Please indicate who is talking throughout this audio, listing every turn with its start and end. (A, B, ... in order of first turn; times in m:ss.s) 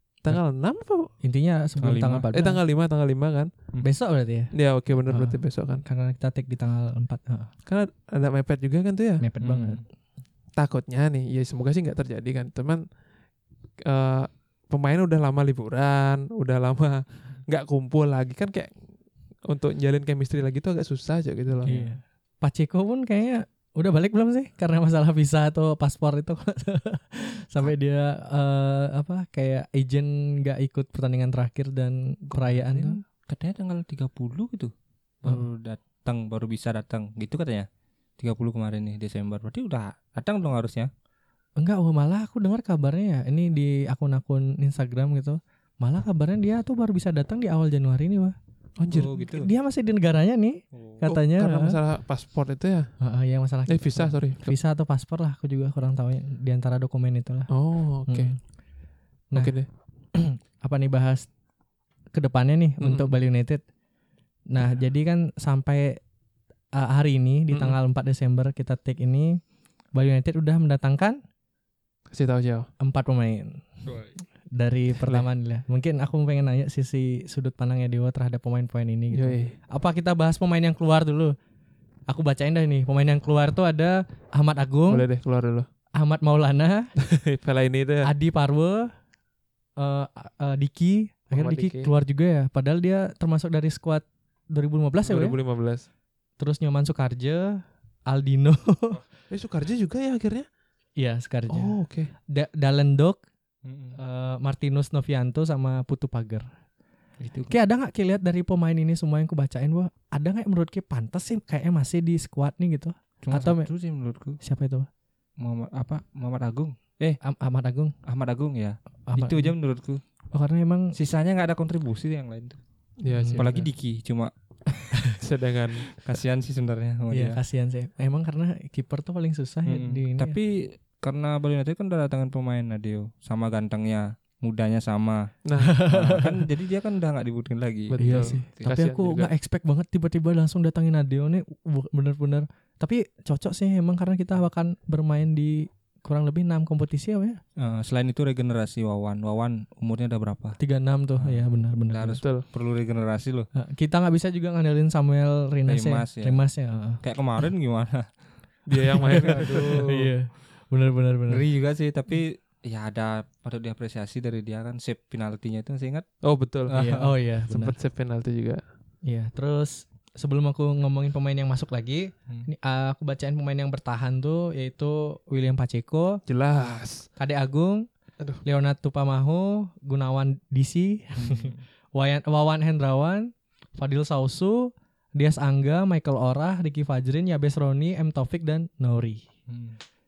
0:00.2-0:01.1 A
0:01.2-0:02.6 B
0:01.8-0:02.2 C
0:02.3-0:03.5 A
0:03.8-0:04.5 B
0:04.5-0:05.8 A
0:05.1-0:07.5 B
0:07.6-0:09.3 A
0:09.2-0:09.8 B
0:09.4-0:09.8 C
0:10.6-0:12.8 A
0:13.8-0:18.8 A
0:19.4-0:21.7 A
0:21.6-0:21.9 C
0:21.6-0:33.0 B
0:32.3-0:37.7 C
0:38.2-0:40.9 C
0:41.6-0:48.4 B
0:48.8-0:49.1 A
0:48.9-0:49.5 C
0:49.0-0:51.8 B
0:50.7-0:51.0 C
0:51.0-0:52.9 A
0:53.0-0:57.5 B
0:53.7-0:54.6 A
0:57.5-0:58.3 A
0:58.1-0:58.4 B
0:59.4-0:59.6 A
1:00.1-1:01.3 B
1:02.1-1:03.6 B
1:02.8-1:03.1 A
1:04.5-1:06.0 B
1:06.8-1:09.4 B
1:09.9-1:11.2 B
1:12.1-1:12.7 A
1:12.8-1:13.7 B
1:13.8-1:14.1 C
1:14.5-1:21.4 B
1:19.1-1:19.5 A
1:22.1-1:25.0 B
1:24.9-1:25.7 A
1:25.9-1:26.9 B
1:27.0-1:28.1 A
1:28.0-1:28.9 B
1:29.8-1:35.4 B
1:31.3-1:31.9 A
1:35.0-1:35.9 A
1:36.4-1:39.0 B
1:39.3-1:40.5 A
1:41.0-1:41.7 B
1:41.5-1:42.1 A
1:42.3-1:43.2 B
1:43.6-1:44.0 C
1:44.0-1:46.4 B
1:47.2-1:47.6 C
1:47.5-1:53.7 B
1:53.2-1:54.4 C
1:54.4-1:54.9 B
1:55.4-1:57.2 C
1:57.2-1:57.9 B
1:58.0-2:00.0 C
1:59.1-1:59.5 B
2:00.3-2:00.9 B
2:00.9-2:02.6 C
2:03.0-2:03.6 A
2:03.1-2:03.5 B
2:03.4-2:05.1 C
2:05.2-2:05.8 A
2:05.9-2:07.4 C
2:07.1-2:10.4 B
2:09.6-2:15.3 C
2:15.4-2:15.8 A
2:15.6-2:16.4 B
2:15.9-2:18.7 C
2:17.9-2:19.3 A
2:18.0-2:27.4 B
2:27.6-2:30.6 C
2:30.6-2:32.2 B
2:31.2-2:33.5 C
2:33.5-2:37.0 B
2:35.7-2:36.4 C
2:37.0-2:38.1 C
2:38.7-2:40.1 A
2:38.9-2:41.4 B
2:39.0-2:40.0 C
2:41.3-2:46.0 C
2:46.2-2:46.8 A
2:46.7-2:47.1 C
2:46.7-2:47.7 B
2:47.5-2:48.6 A
2:49.0-2:56.2 B
2:56.3-2:57.1 A
2:57.2-2:57.9 B
2:58.4-3:09.2 B
3:01.2-3:01.6 C
3:09.5-3:09.8 C